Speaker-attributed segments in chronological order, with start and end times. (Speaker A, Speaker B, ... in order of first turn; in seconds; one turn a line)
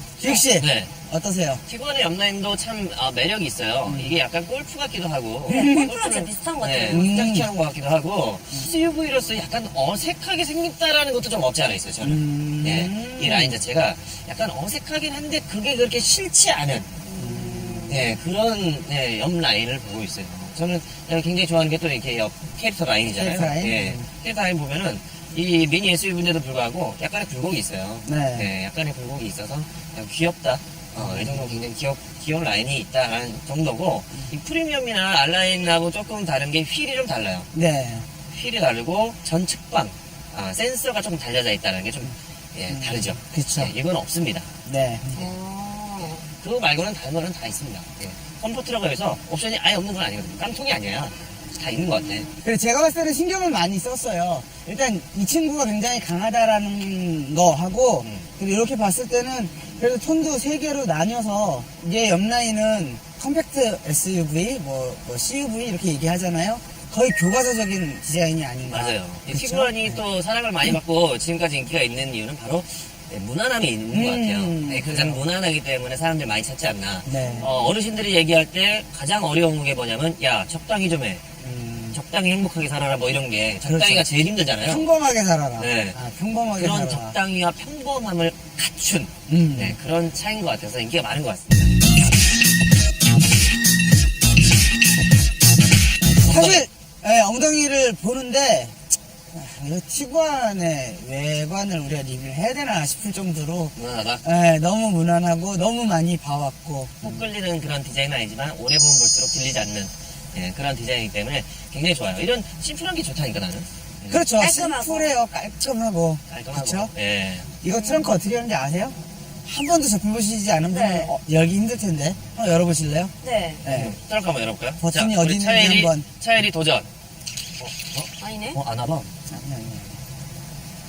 Speaker A: 0.2-1.6
Speaker B: 0.2-0.9
Speaker B: 1.6-16.9
Speaker A: 3.8-4.2
Speaker C: 5.5-7.2
Speaker A: 5.5-5.9
Speaker A: 6.9-7.5
Speaker A: 12.0-13.6
Speaker C: 17.0-18.1
Speaker A: 17.1-18.0
Speaker B: 17.9-37.5
Speaker A: 23.1-24.1
Speaker A: 28.0-28.5
Speaker A: 30.9-31.6
Speaker A: 37.5-38.1
Speaker B: 38.3-44.5
Speaker A: 42.7-43.7
Speaker A: 44.6-45.3
Speaker C: 45.1-46.2
Speaker B: 46.4-52.3
Speaker A: 52.4-70.0
Speaker B: 58.0-58.3
Speaker B: 68.7-81.2
Speaker A: 73.9-75.2
Speaker A: 77.0-77.5
Speaker C: 77.1-77.6
Speaker A: 81.4-82.0
Speaker B: 81.9-84.9
Speaker A: 83.6-84.0
Speaker A: 84.6-87.2
Speaker B: 85.6-86.0
Speaker B: 86.5-91.8
Speaker A: 89.3-89.8
Speaker B: 96.2-96.7
Speaker A: 96.2-107.3
Speaker B: 103.7-104.2
Speaker B: 107.0-114.2
Speaker A: 114.1-116.9
Speaker C: 114.3-115.1
Speaker B: 116.3-117.5
Speaker A: 117.6-123.1
Speaker C: 117.7-118.1
Speaker C: 120.7-121.1
Speaker C: 123.2-123.6
Speaker A: 123.6-124.0
Speaker B: 123.6-126.9
Speaker A: 124.8-126.1
Speaker B: 127.6-129.1
Speaker C: 128.2-128.6
Speaker A: 129.3-129.9